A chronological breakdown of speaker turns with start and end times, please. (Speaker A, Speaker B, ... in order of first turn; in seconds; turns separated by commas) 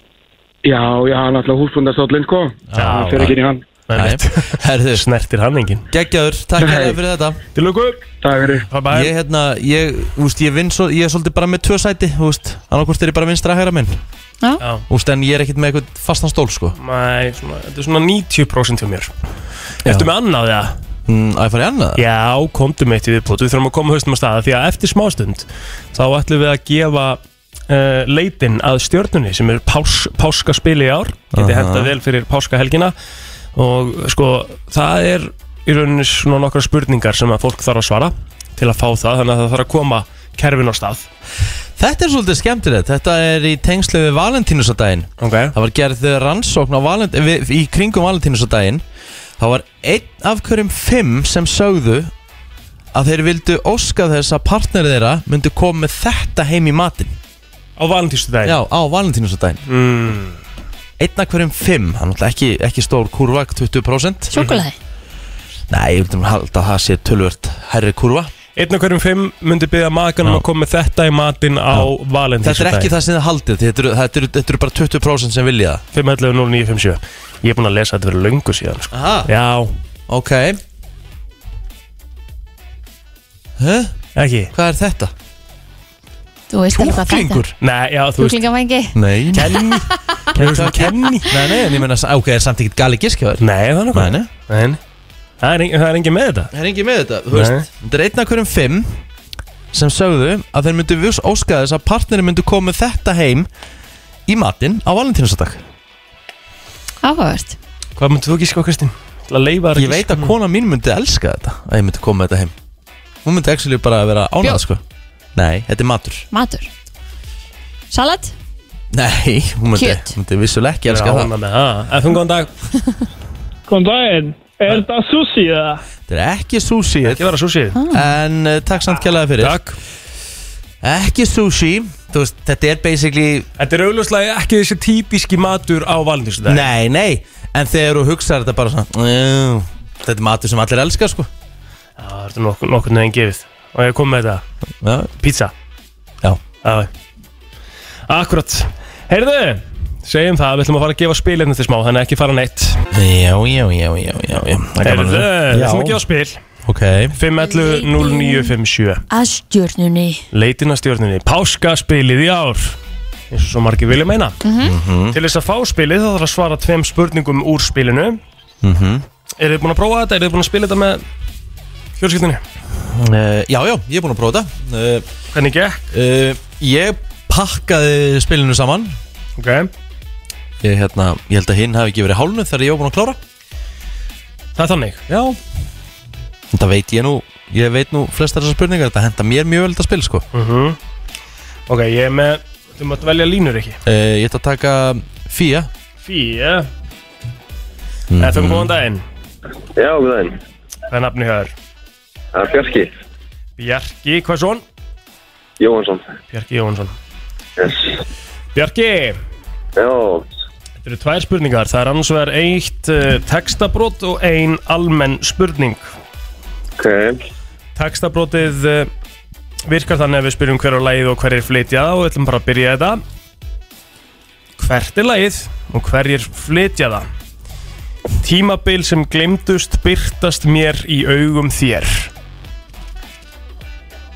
Speaker A: 0.6-3.7, Speaker B: 2.7-3.4, Speaker C: 2.8-3.4, Speaker C: 3.9-5.9, Speaker B: 3.9-5.0, Speaker B: 5.9-7.4, Speaker A: 6.6-7.0, Speaker C: 7.5-8.0, Speaker A: 8.2-8.7, Speaker C: 8.7-9.1, Speaker B: 8.9-14.0, Speaker B: 14.9-16.7, Speaker C: 16.8-19.1, Speaker B: 19.8-20.1, Speaker C: 19.8-20.8, Speaker B: 21.1-22.0, Speaker C: 22.0-32.9, Speaker B: 31.3-31.9, Speaker C: 33.5-41.0, Speaker B: 41.8-48.8, Speaker C: 45.2-45.5, Speaker B: 49.4-52.1, Speaker B: 52.9-57.1, Speaker C: 57.8-58.6, Speaker B: 58.4-59.6, Speaker C: 59.7-60.4, Speaker B: 61.0-64.4, Speaker D: 64.3-64.8, Speaker B: 65.7-68.3, Speaker C: 68.5-72.9, Speaker B: 72.4-75.8, Speaker C: 75.9-79.7, Speaker B: 78.9-79.3, Speaker B: 80.1-80.6, Speaker B: 83.6-83.9, Speaker C: 84.2-84.5, Speaker B: 84.5-85.1, Speaker D: 86.5-87.4, Speaker B: 86.7-87.5, Speaker C: 87.6-88.4, Speaker D: 88.2-89.8, Speaker B: 88.9-89.6, Speaker C: 89.3-91.5, Speaker B: 90.3-94.3, Speaker C: 93.4-94.8, Speaker C: 95.4-96.5, Speaker B: 96.5-99.0, Speaker C: 97.3-97.7, Speaker B: 99.7-103.5, Speaker B: 104.3-105.6, Speaker D: 107.0-107.6, Speaker C: 108.0-110.3, Speaker B: 109.7-112.5, Speaker B: 113.2-114.8, Speaker B: 115.3-116.2, Speaker D: 116.3-116.7, Speaker D: 117.9-118.3, Speaker B: 118.9-121.3, Speaker D: 119.7-120.1, Speaker C: 120.9-122.5, Speaker E: 123.7-125.8, Speaker B: 126.1-127.2, Speaker C: 127.0-127.8, Speaker D: 127.7-128.0, Speaker B: 127.9-129.6, Speaker C: 129.4-129.8, Speaker B: 130.8-133.5, Speaker C: 133.6-136.7, Speaker B: 136.4-141.3, Speaker C: 142.0-144.4, Speaker B: 144.8-145.1, Speaker C: 145.2-145.5, Speaker C: 146.6-146.9, Speaker C: 148.1-152.8, Speaker B: 152.9-156.0, Speaker C: 154.8-156.4, Speaker B: 156.6-157.2, Speaker C: 157.2-159.0, Speaker D: 157.4-158.5, Speaker D: 159.1-160.2, Speaker C: 160.3-162.8, Speaker C: 163.3-164.4, Speaker D: 164.4-164.7, Speaker B: 164.6-165.2, Speaker C: 165.1-168.2, Speaker B: 168.6-169.0, Speaker C: 169.4-171.0, Speaker C: 172.0-172.4, Speaker B: 172.8-175.1, Speaker C: 175.3-175.8, Speaker B: 175.9-178.9, Speaker C: 179.4-179.7, Speaker B: 180.6-183.2, Speaker C: 184.6-185.4, Speaker B: 186.5-190.2, Speaker C: 190.3-190.8, Speaker C: 191.7-193.8, Speaker B: 193.8-195.7, Speaker C: 196.0-196.7, Speaker B: 198.1-198.7, Speaker C: 198.2-199.0, Speaker F: 199.8-200.3, Speaker C: 200.9-201.5, Speaker F: 202.3-202.9, Speaker C: 203.6-204.6, Speaker F: 205.6-206.1, Speaker C: 206.3-206.9, Speaker F: 207.6-207.9, Speaker C: 208.5-209.2, Speaker F: 209.8-210.2, Speaker C: 210.8-215.9, Speaker F: 216.8-217.2, Speaker C: 217.8-218.9, Speaker C: 219.7-223.0, Speaker C: 224.6-227.1, Speaker C: 228.2-232.1